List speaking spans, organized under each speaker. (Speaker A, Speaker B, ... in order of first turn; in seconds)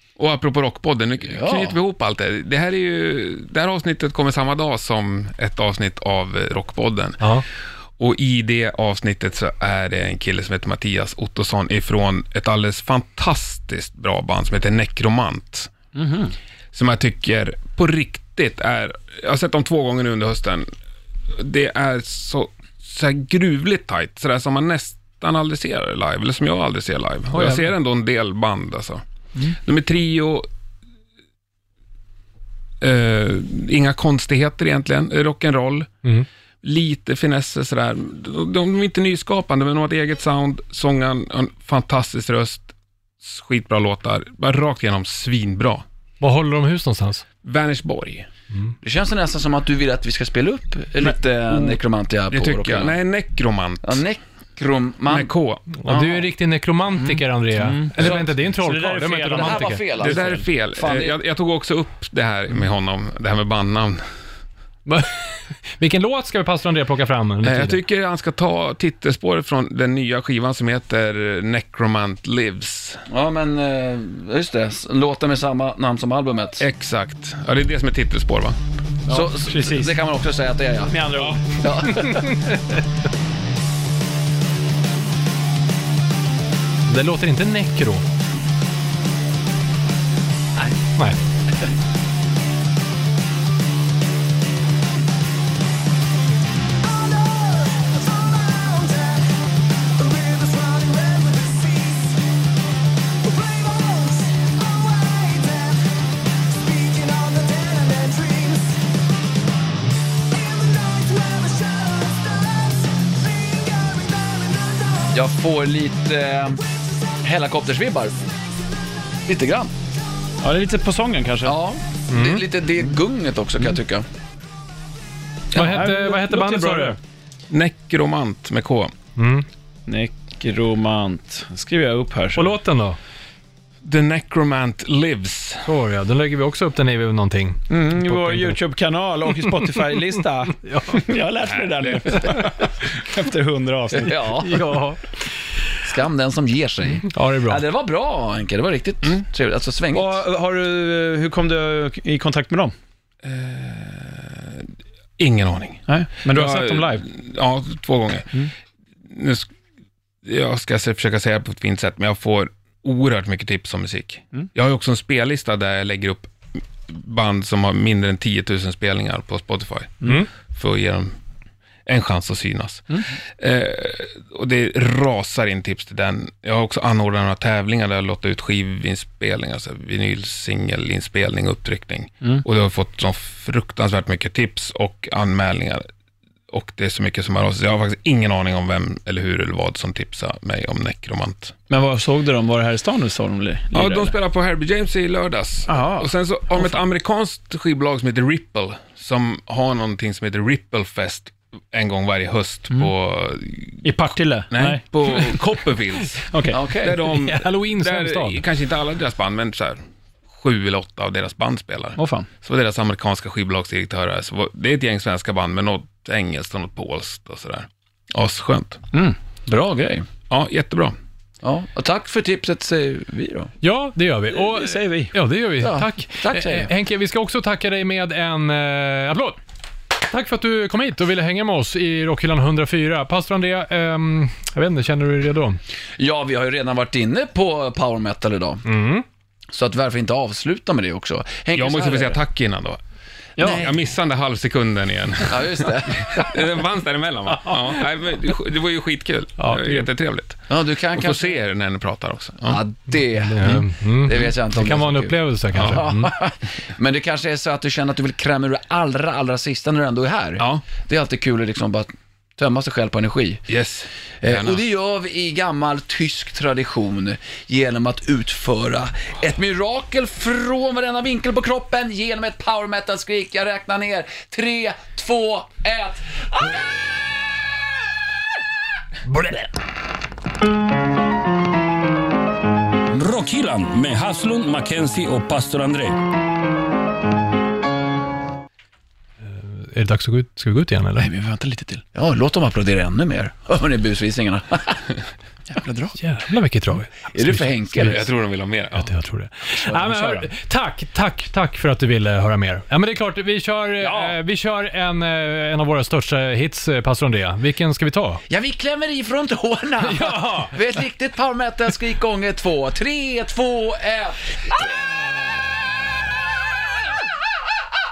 Speaker A: 0.2-7.2, 8.0-15.7, 16.7-20.7, 21.3-30.5, 32.8-35.9, 36.6-45.8, 47.4-48.3, 52.3-54.0, 55.1-55.6, 60.0-64.0, 67.4-73.0, 76.6-78.6, 127.5-128.9, 133.8-135.7, 141.5-142.4, 153.2-158.4, 159.1-159.5, 160.2-171.1, 171.9-185.8, 186.5-191.6, 193.7-203.9, 204.5-209.8, 210.3-218.8, 220.3-220.9, 241.6-242.8, 243.4-252.6, 263.5-264.6, 297.8-298.9
Speaker B: 1.2-1.8, 48.8-53.0, 53.8-55.3, 55.9-56.3, 58.0-58.3, 59.3-61.2, 73.1-76.7, 79.1-82.5, 98.6-99.1, 100.0-102.1, 103.9-104.2, 106.8-108.7, 111.1-111.8, 115.0-116.6, 117.2-118.2, 119.3-119.7, 121.4-124.0, 143.9-144.8, 145.8-150.2, 206.5-207.0, 219.5-220.1, 221.4-223.5, 225.6-226.7, 236.0-238.6, 239.5-242.2, 243.4-243.8, 245.3-246.3, 250.5-251.4, 252.4-263.4, 264.2-276.7, 291.9-294.9, 297.1-298.1, 299.9-300.2, 303.8-304.1, 308.3-314.4
Speaker C: 7.2-7.5, 27.3-27.6, 46.2-47.3, 55.8-59.8, 64.9-67.8, 82.0-82.6, 86.9-88.0, 122.1-122.5, 125.5-127.0, 129.2-129.5, 132.3-133.0, 135.7-138.6, 140.6-141.1, 144.4-145.2, 147.0-147.7, 170.0-170.3, 207.0-208.4, 223.6-229.4, 230.0-235.6, 238.7-239.1, 247.4-247.8, 249.4-249.9, 253.1-256.1, 289.2-291.1, 296.0-298.1, 298.7-308.2, 309.8-310.5
Speaker D: 16.0-16.3, 57.1-60.1, 79.1-80.0, 80.9-81.9, 120.4-121.5, 125.6-127.0, 129.9-132.6, 137.7-144.3, 149.9-152.7, 155.9-157.1, 191.7-194.1, 195.7-196.8, 203.8-205.4, 206.3-206.6, 212.0-212.3, 224.3-225.1, 243.4-243.7, 291.0-291.8, 295.5-296.0, 299.7-300.1
Speaker E: 282.9-286.0